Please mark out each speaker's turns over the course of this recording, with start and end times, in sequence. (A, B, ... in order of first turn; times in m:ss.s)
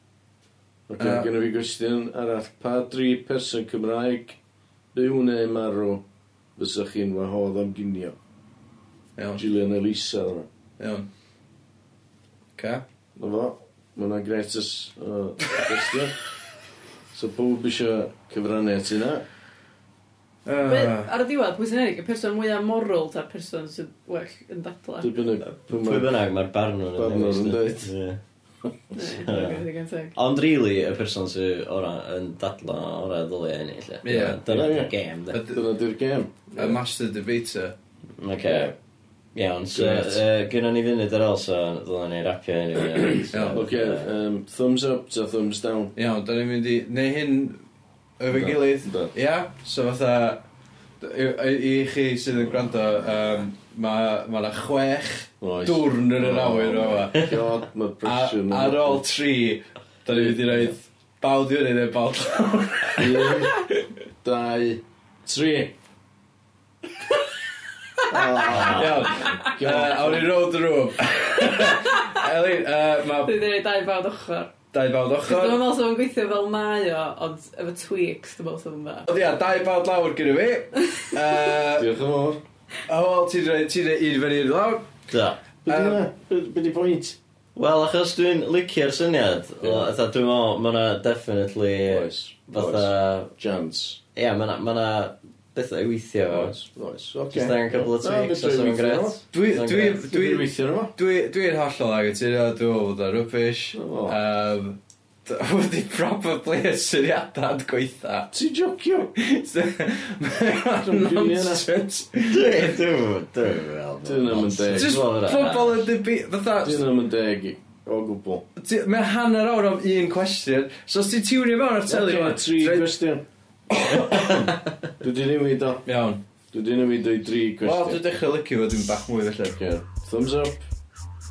0:00.9-0:04.4 A
0:01.0-0:01.3 B
0:04.9-0:06.0 A
0:06.6-0:08.2 A
0:09.2-0:09.4 B
0:09.4-0:10.5 A
0:10.8-0:11.1 B
0:12.6-0:12.8 B
0:13.2-0:16.2 A
0:17.1-0:19.2 A
0:20.4-0:21.1 B
0:20.6-0:25.1 C
0:25.0-0:26.1 A
0:25.4-0:28.2 D
0:26.9-0:27.9 A
0:28.9-0:30.2 C
0:29.1-0:35.4 D
0:34.0-0:34.4 B
0:34.4-0:34.9 A
0:35.3-0:35.6 B
0:35.5-0:36.8 A
0:36.5-0:37.7 B
0:38.2-0:38.7 D
0:38.4-0:38.7 A
0:39.3-0:44.1 D
0:39.7-0:40.2 A
0:43.3-0:43.6 B
0:43.5-0:45.9 A
0:46.0-0:47.6 B
0:48.2-0:50.4 B
0:48.3-0:49.1 A
0:51.0-0:57.4 B
0:55.4-0:59.0 A
0:58.0-1:03.8 B
1:00.1-1:00.7 A
1:03.0-1:03.6 A
1:04.2-1:05.8 A
1:08.1-1:10.3 A
1:08.4-1:09.0 D
1:08.6-1:13.4 B
1:11.7-1:12.0 C
1:13.2-1:14.5 C
1:14.7-1:15.6 B
1:15.3-1:19.1 C
1:19.1-1:21.9 B
1:21.7-1:22.4 A
1:22.9-1:24.9 B
1:25.1-1:25.4 D
1:25.6-1:27.2 A
1:25.7-1:26.0 B
1:27.6-1:33.3 D
1:29.6-1:29.9 A
1:31.9-1:34.0 A
1:34.1-1:36.5 D
1:36.3-1:39.2 A
1:37.3-1:40.0 D
1:39.3-1:48.3 B
1:40.0-1:40.9 A
1:43.7-1:44.2 A
1:48.3-1:49.1 A
1:49.2-1:52.8 B
1:50.8-1:51.6 A
1:52.2-1:55.8 D
1:54.0-1:55.0 A
1:54.7-1:56.8 B
1:56.6-1:58.4 A
1:58.6-2:02.9 B
2:01.9-2:03.2 A
2:03.7-2:04.6 B
2:04.1-2:05.8 A
2:05.8-2:06.2 B
2:06.5-2:08.0 A
2:07.6-2:09.6 B
2:09.5-2:10.6 A